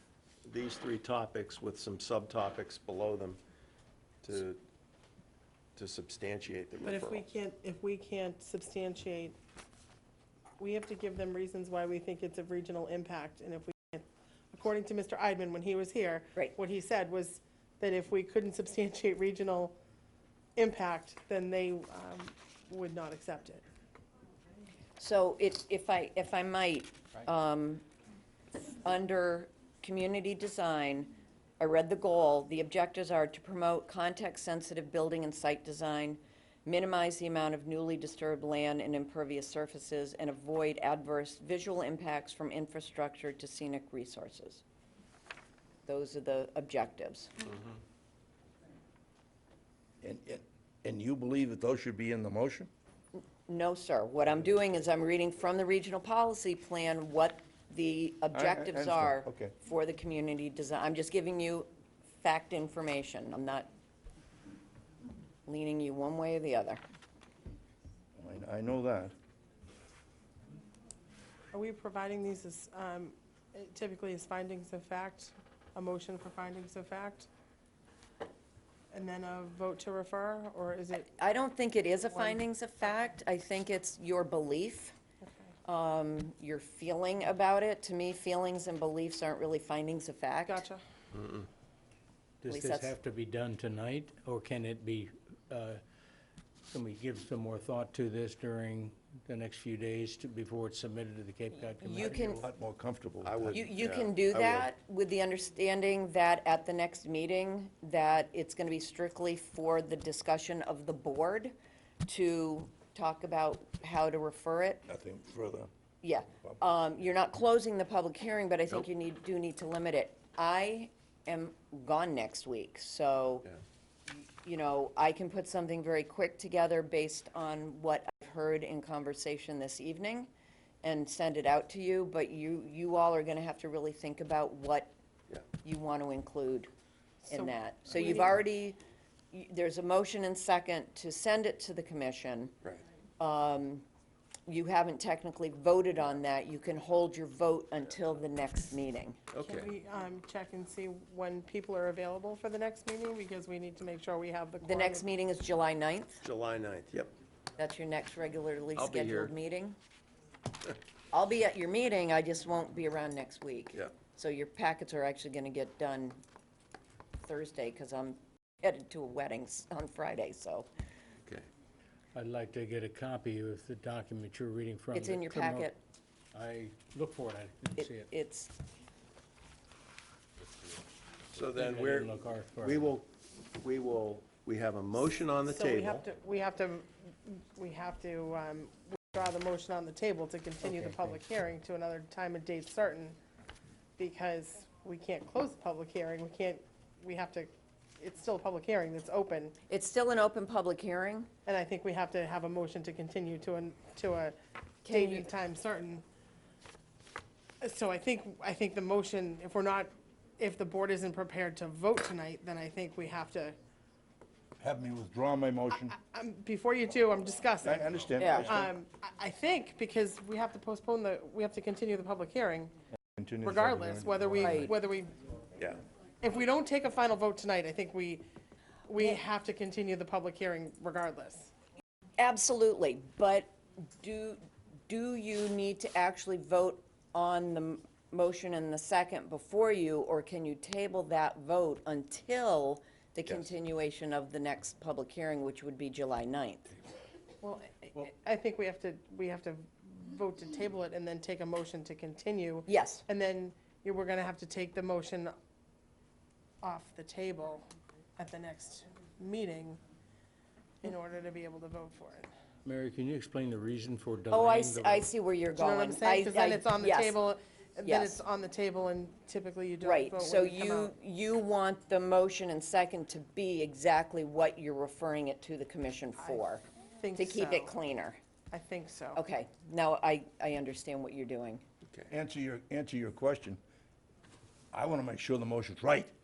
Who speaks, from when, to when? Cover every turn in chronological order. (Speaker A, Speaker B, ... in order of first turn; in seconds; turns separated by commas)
Speaker A: 0.5-3.4, Speaker A: 4.2-4.6, Speaker A: 5.8-7.2, Speaker B: 6.8-9.4, Speaker B: 10.6-19.8, Speaker B: 20.6-23.6, Speaker C: 25.0-27.9, Speaker C: 28.6-44.6, Speaker C: 45.9-47.4, Speaker D: 50.0-52.7, Speaker C: 53.1-63.7, Speaker D: 58.3-59.5, Speaker C: 65.5-66.8, Speaker D: 68.2-69.1, Speaker B: 71.5-77.3, Speaker B: 78.9-81.1, Speaker C: 81.0-85.0, Speaker B: 82.1-82.5, Speaker B: 85.2-85.5, Speaker C: 85.7-90.7, Speaker B: 90.5-90.8, Speaker A: 91.1-91.5, Speaker E: 92.4-95.8, Speaker C: 92.5-92.9, Speaker E: 96.7-102.4, Speaker C: 101.5-102.4, Speaker D: 102.0-103.7, Speaker A: 103.2-104.7, Speaker C: 103.5-111.5, Speaker C: 112.1-114.8, Speaker D: 114.9-115.7, Speaker C: 116.0-123.5, Speaker C: 124.1-130.3, Speaker C: 130.8-134.9, Speaker C: 135.6-136.7, Speaker B: 137.2-138.3, Speaker C: 137.3-138.8, Speaker C: 139.3-142.6, Speaker C: 143.2-143.9, Speaker C: 144.5-149.2, Speaker A: 149.3-149.7, Speaker B: 149.4-155.1, Speaker C: 154.6-156.2, Speaker A: 156.2-157.1, Speaker C: 157.6-159.8, Speaker A: 158.8-159.3, Speaker C: 161.1-166.2, Speaker C: 167.2-170.7, Speaker E: 172.2-175.7, Speaker C: 174.9-175.8, Speaker E: 176.3-178.1, Speaker C: 177.8-178.5, Speaker A: 181.3-186.1, Speaker E: 181.5-182.9, Speaker B: 185.5-193.2, Speaker E: 190.6-191.2, Speaker B: 194.0-199.6, Speaker C: 199.7-201.3, Speaker B: 201.5-206.0, Speaker C: 204.8-205.3, Speaker B: 207.6-213.6, Speaker D: 214.6-215.9, Speaker B: 215.7-222.7, Speaker D: 217.6-218.7, Speaker C: 218.2-218.5, Speaker D: 223.2-224.7, Speaker B: 223.4-225.1, Speaker C: 224.4-224.7, Speaker B: 226.2-228.2, Speaker B: 228.9-231.5, Speaker C: 232.2-246.7, Speaker B: 247.4-255.3, Speaker C: 252.7-253.1, Speaker B: 256.6-257.6, Speaker B: 258.2-259.8, Speaker B: 260.8-262.3, Speaker E: 262.6-265.1, Speaker C: 264.3-267.2, Speaker B: 265.6-271.0, Speaker C: 267.8-268.2, Speaker C: 269.8-276.6, Speaker B: 276.2-276.4, Speaker B: 277.0-277.8, Speaker C: 277.1-278.2, Speaker B: 278.5-279.2, Speaker C: 279.1-281.6, Speaker D: 282.1-283.6, Speaker D: 284.7-286.1